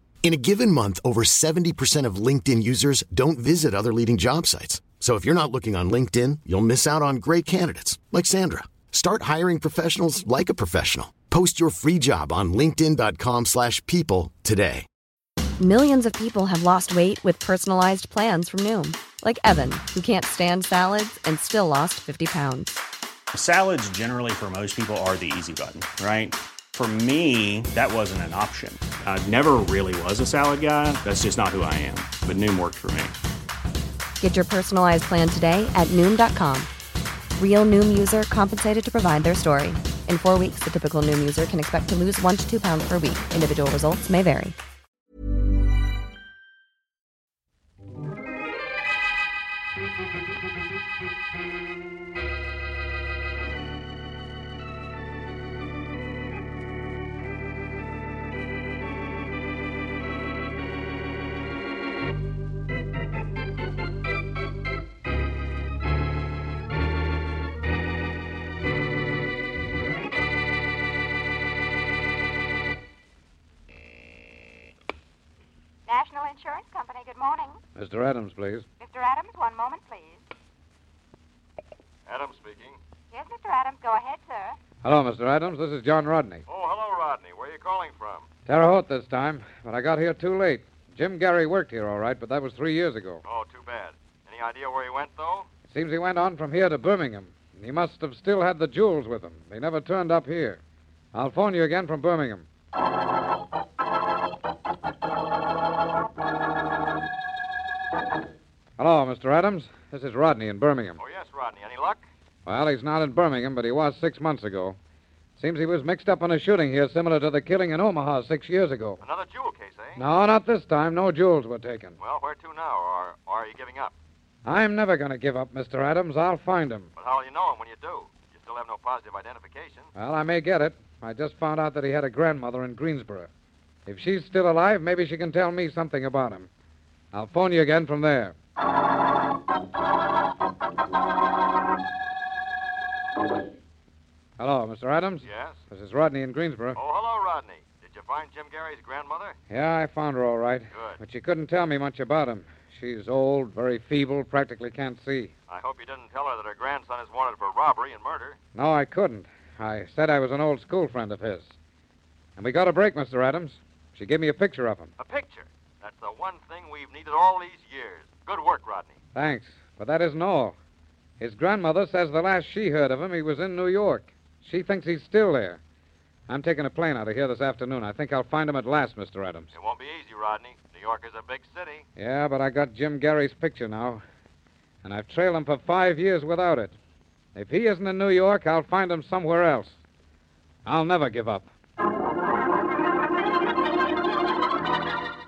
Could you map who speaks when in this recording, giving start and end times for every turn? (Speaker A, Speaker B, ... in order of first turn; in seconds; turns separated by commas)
Speaker A: 0.2-14.8, Speaker B: 15.6-22.8, Speaker C: 23.3-33.1, Speaker B: 34.2-36.7, Speaker B: 37.4-44.5, Speaker D: 75.9-77.6, Speaker E: 77.7-78.6, Speaker D: 78.8-80.2, Speaker F: 82.0-82.8, Speaker D: 83.1-84.6, Speaker E: 84.8-86.4, Speaker F: 86.5-88.2, Speaker E: 88.5-93.2, Speaker F: 93.2-95.5, Speaker E: 95.7-100.6, Speaker E: 101.1-102.5, Speaker E: 108.8-111.0, Speaker F: 111.0-112.0, Speaker E: 112.5-114.8, Speaker E: 115.4-119.0, Speaker F: 119.0-120.0, Speaker E: 120.0-122.0, Speaker F: 122.0-123.9, Speaker E: 124.4-126.9, Speaker F: 127.0-129.9, Speaker E: 129.9-133.3, Speaker E: 133.8-136.5, Speaker E: 137.1-138.3, Speaker E: 144.4-146.8, Speaker F: 145.2-145.6, Speaker F: 146.7-149.4, Speaker E: 149.5-155.3, Speaker F: 150.7-151.0, Speaker F: 155.5-158.4, Speaker E: 158.5-161.5, Speaker E: 162.4-164.9, Speaker F: 165.0-169.0, Speaker E: 169.1-170.6, Speaker E: 171.2-175.6, Speaker E: 176.3-179.5, Speaker F: 179.5-181.8, Speaker E: 182.0-184.0, Speaker E: 184.8-186.7, Speaker E: 187.3-189.8, Speaker E: 190.6-191.5